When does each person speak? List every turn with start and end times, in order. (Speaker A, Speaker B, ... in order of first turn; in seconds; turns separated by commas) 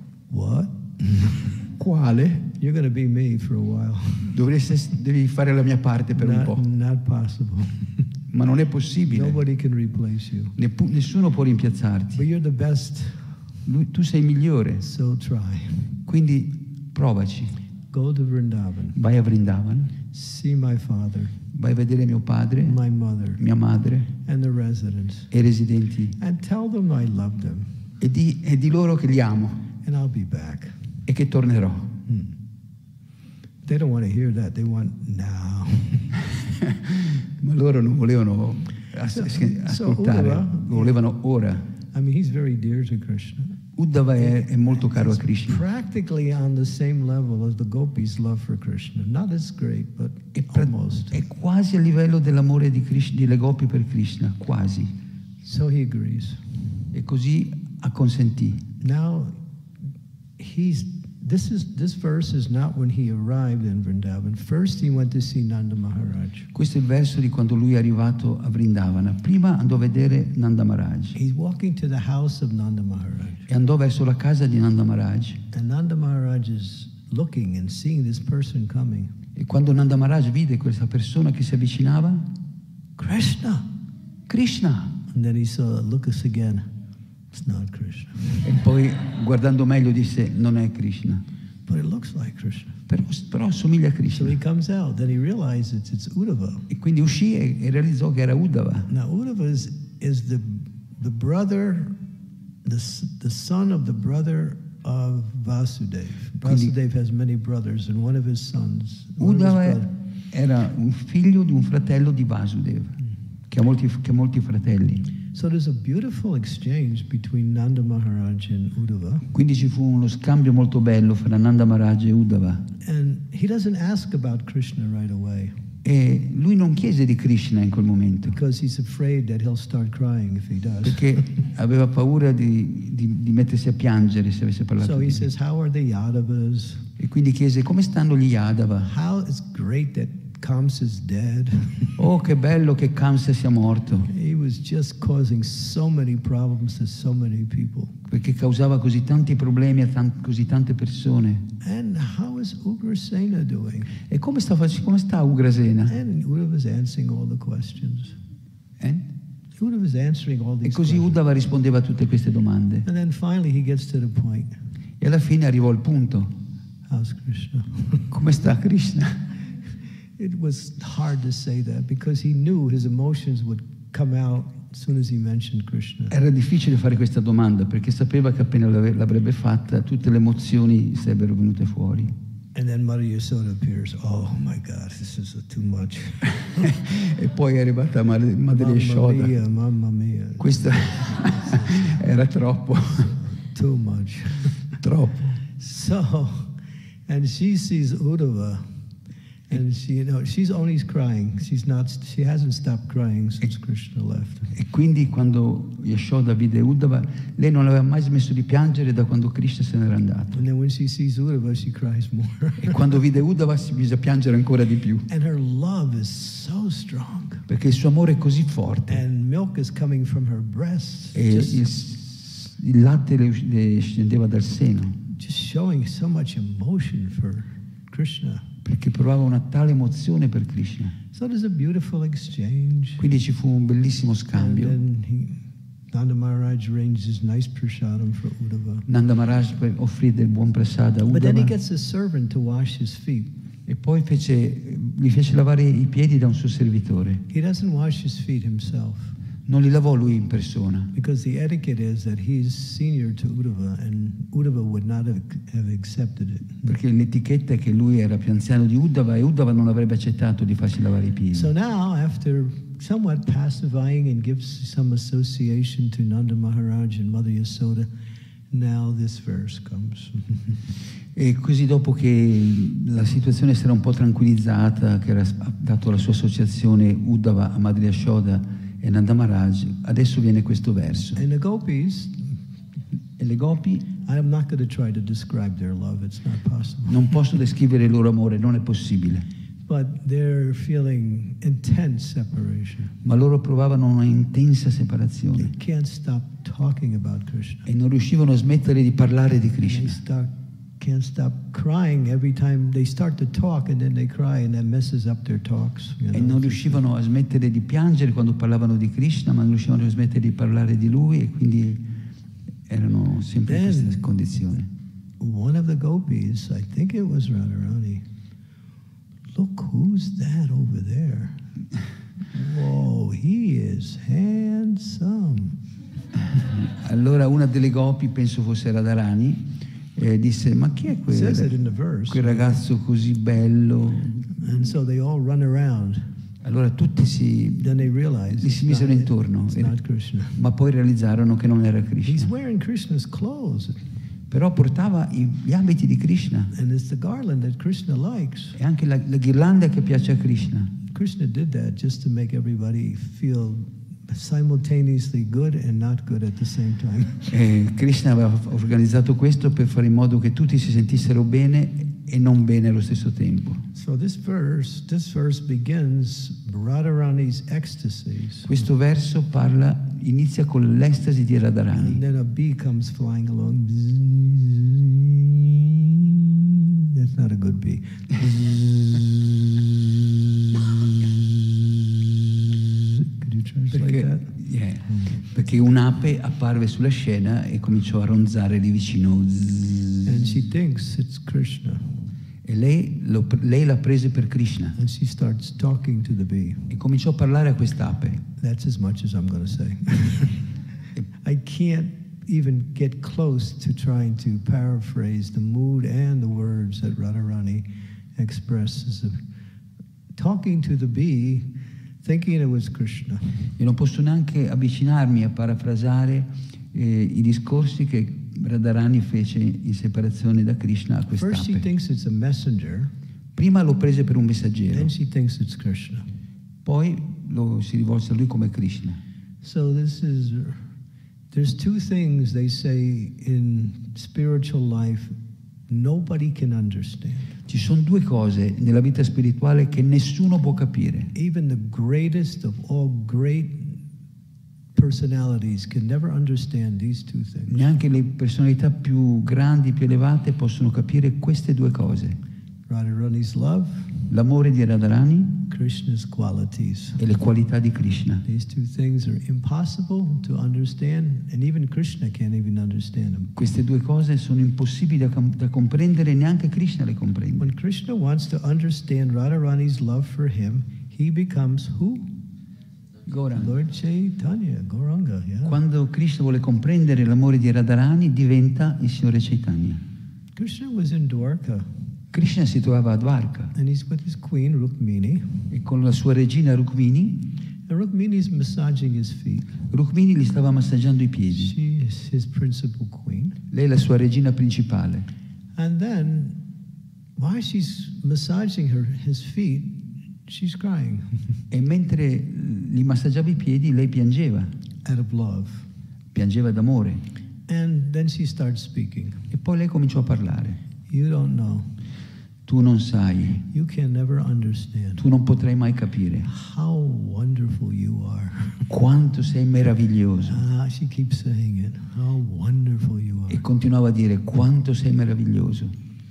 Speaker A: 0.3-1.7, Speaker B: 1.8-2.5, Speaker A: 2.6-4.4, Speaker B: 4.3-6.6, Speaker A: 6.1-8.1, Speaker B: 8.3-9.4, Speaker A: 9.1-10.5, Speaker B: 10.6-12.2, Speaker A: 12.1-13.5, Speaker B: 13.7-14.8, Speaker A: 14.8-16.0, Speaker B: 16.1-17.6, Speaker A: 17.9-18.9, Speaker B: 18.9-19.9, Speaker A: 20.1-21.4, Speaker B: 21.5-22.8, Speaker A: 22.6-23.4, Speaker B: 23.4-24.1, Speaker A: 24.2-25.3, Speaker B: 25.3-26.2, Speaker A: 26.2-27.7, Speaker B: 28.0-29.6, Speaker A: 29.8-30.8, Speaker B: 31.1-32.0, Speaker A: 32.0-32.3, Speaker A: 33.6-36.2, Speaker B: 36.6-41.6, Speaker A: 39.1-41.0, Speaker A: 41.9-43.6, Speaker B: 43.8-45.6, Speaker A: 44.1-51.2, Speaker B: 50.3-54.9, Speaker A: 55.4-56.5, Speaker B: 56.9-58.6, Speaker A: 58.8-59.4, Speaker A: 60.4-66.5, Speaker B: 66.5-71.2, Speaker A: 71.1-73.5, Speaker B: 73.5-75.4, Speaker A: 75.5-79.1, Speaker B: 79.3-82.3, Speaker A: 83.0-83.7, Speaker B: 84.3-85.0, Speaker A: 85.1-86.7, Speaker A: 87.3-88.5, Speaker B: 88.4-91.2, Speaker A: 91.7-92.8, Speaker B: 92.9-94.4, Speaker A: 94.1-96.7, Speaker B: 96.7-98.9, Speaker A: 98.9-102.0, Speaker A: 102.6-109.9, Speaker B: 106.4-106.7, Speaker B: 109.2-113.0, Speaker B: 113.5-115.1, Speaker A: 115.3-119.3, Speaker B: 119.3-122.7, Speaker A: 122.8-125.6, Speaker B: 125.8-128.4, Speaker A: 128.3-131.2, Speaker B: 130.8-135.3, Speaker A: 134.8-136.9, Speaker B: 137.0-138.9, Speaker A: 138.8-142.0, Speaker B: 142.0-144.1, Speaker A: 144.1-147.9, Speaker B: 148.1-151.5, Speaker A: 151.6-153.9, Speaker B: 154.0-156.0, Speaker A: 155.9-158.2, Speaker B: 158.8-159.1, Speaker A: 159.6-161.2, Speaker B: 160.6-162.8, Speaker A: 162.8-164.5, Speaker B: 165.0-166.3, Speaker A: 166.9-168.1, Speaker B: 168.1-169.2, Speaker A: 170.2-176.2, Speaker B: 176.1-182.1, Speaker A: 182.5-186.7, Speaker B: 186.5-189.3, Speaker A: 188.5-192.0, Speaker B: 190.4-193.1, Speaker A: 193.0-194.7, Speaker B: 194.8-195.3, Speaker A: 195.6-196.5, Speaker A: 197.1-198.9, Speaker A: 199.5-204.5, Speaker B: 204.5-210.4, Speaker A: 210.3-212.8, Speaker B: 212.6-215.1, Speaker A: 215.1-217.5, Speaker B: 217.5-219.0, Speaker A: 218.9-221.6, Speaker B: 221.1-225.0, Speaker A: 225.1-228.5, Speaker B: 228.6-230.9, Speaker A: 231.1-233.0, Speaker B: 233.0-234.8, Speaker A: 234.3-238.8, Speaker B: 238.9-241.5, Speaker A: 241.1-243.3, Speaker B: 243.7-247.2, Speaker A: 247.3-249.2, Speaker B: 249.4-250.9, Speaker A: 250.9-256.7, Speaker B: 256.6-261.5, Speaker A: 261.3-267.9, Speaker A: 268.5-270.6, Speaker B: 271.1-281.2, Speaker A: 281.1-282.4, Speaker B: 283.2-283.9, Speaker A: 284.0-287.1, Speaker B: 286.9-289.2, Speaker A: 289.7-292.9, Speaker B: 293.0-295.5, Speaker A: 295.3-297.6, Speaker B: 297.6-300.0, Speaker A: 299.6-306.8, Speaker B: 306.1-311.8, Speaker B: 312.7-314.7, Speaker A: 313.4-314.0, Speaker A: 315.2-318.0, Speaker A: 319.3-321.4, Speaker A: 322.3-325.6, Speaker B: 326.2-331.5, Speaker A: 331.1-332.5, Speaker B: 332.1-334.4, Speaker A: 334.3-336.1, Speaker B: 336.4-337.7, Speaker A: 337.6-340.4, Speaker B: 338.3-339.7, Speaker B: 340.4-342.3, Speaker A: 342.0-343.9, Speaker B: 344.3-346.5, Speaker A: 346.5-348.6, Speaker B: 348.5-350.7, Speaker A: 350.9-357.3, Speaker B: 357.3-363.6, Speaker A: 363.7-368.5, Speaker B: 368.4-372.0, Speaker A: 371.7-384.3, Speaker B: 383.7-390.4, Speaker A: 384.9-385.2, Speaker A: 390.0-392.1, Speaker B: 392.4-394.8, Speaker A: 394.8-396.7, Speaker B: 396.7-398.2, Speaker A: 398.4-400.5, Speaker A: 401.2-409.2, Speaker A: 410.1-413.5, Speaker B: 413.6-421.7, Speaker A: 421.1-422.9, Speaker B: 423.3-424.9, Speaker A: 424.7-426.1, Speaker B: 426.6-429.0, Speaker A: 429.4-430.6, Speaker A: 431.3-435.1, Speaker A: 435.7-437.4, Speaker B: 437.5-441.1, Speaker A: 441.1-443.8, Speaker A: 444.7-447.7, Speaker B: 447.5-452.2, Speaker A: 452.7-454.1, Speaker B: 454.1-455.4, Speaker A: 455.5-457.0, Speaker B: 457.0-458.2, Speaker A: 458.2-463.3, Speaker B: 463.4-467.5, Speaker A: 467.4-472.1, Speaker B: 473.1-473.5, Speaker A: 473.3-475.6, Speaker B: 475.4-479.8, Speaker A: 480.4-481.8, Speaker B: 482.1-483.5, Speaker A: 483.5-485.5, Speaker B: 485.5-487.3, Speaker A: 487.7-489.5, Speaker B: 489.7-491.5, Speaker A: 491.3-493.4, Speaker B: 493.5-495.1, Speaker A: 495.6-496.4, Speaker A: 497.1-501.4, Speaker B: 501.5-504.5, Speaker A: 504.8-505.6, Speaker B: 506.1-507.0, Speaker A: 507.5-509.3, Speaker B: 509.3-510.6, Speaker A: 510.9-511.8, Speaker B: 512.5-513.5, Speaker A: 513.5-515.0, Speaker B: 515.0-516.3, Speaker A: 516.2-518.7, Speaker B: 518.7-520.4, Speaker A: 520.2-523.4, Speaker B: 523.3-525.7